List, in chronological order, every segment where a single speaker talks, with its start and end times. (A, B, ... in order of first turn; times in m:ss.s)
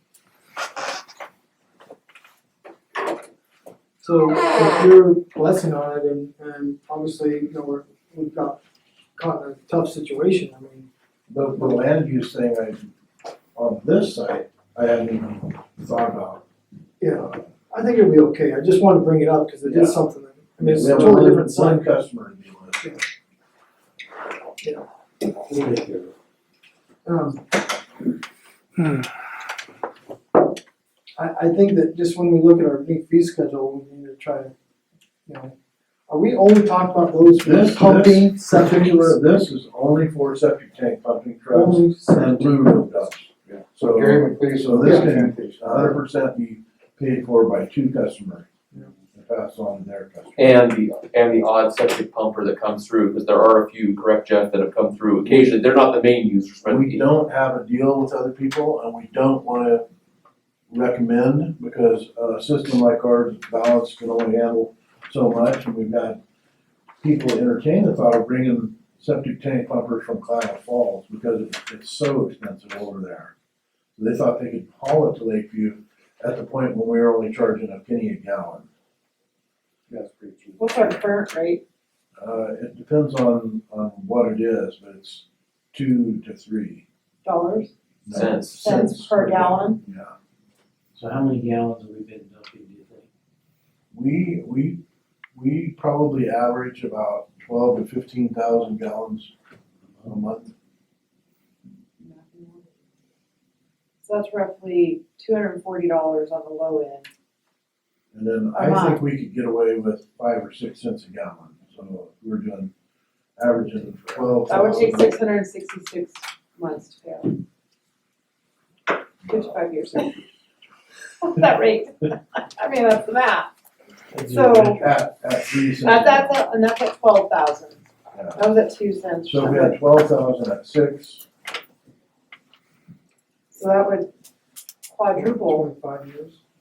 0:04.0-0:08.6 A
0:09.2-0:10.9 A
0:11.3-0:12.9 B
0:13.5-0:16.4 B
0:17.0-0:21.9 A
0:19.6-0:20.0 B
0:20.6-0:22.8 B
0:25.4-0:26.1 C
0:27.0-0:27.4 A
0:31.2-0:34.5 A
0:35.2-0:35.5 A
0:36.1-0:39.2 A
0:37.4-0:48.5 B
0:41.5-0:42.8 A
0:43.4-0:46.0 D
0:44.8-0:45.1 A
0:49.1-0:50.6 B
0:50.4-0:57.0 E
0:55.2-0:55.6 B
0:56.6-0:59.8 B
1:00.7-1:06.2 B
1:07.0-1:13.3 B
1:14.0-1:18.6 B
1:19.9-1:20.9 D
1:20.6-1:21.6 F
1:22.2-1:26.8 B
1:27.2-1:27.7 F
1:28.0-1:30.1 B
1:28.1-1:28.7 E
1:28.5-1:29.8 F
1:30.9-1:33.1 C
1:33.9-1:34.8 B
1:35.3-1:39.3 B
1:40.0-1:40.5 B
1:42.0-1:42.7 F
1:44.0-1:47.1 F
1:48.1-1:52.7 B
1:48.5-1:49.0 F
1:53.4-1:55.1 B
1:54.5-1:57.4 F
1:59.2-2:00.2 F
2:01.2-2:03.5 F
2:04.2-2:04.9 F
2:04.2-2:06.4 B
2:05.8-2:07.8 F
2:08.1-2:08.4 B
2:08.3-2:09.8 F
2:09.2-2:11.2 B
2:13.5-2:14.1 F
2:14.9-2:15.7 F
2:15.1-2:16.4 A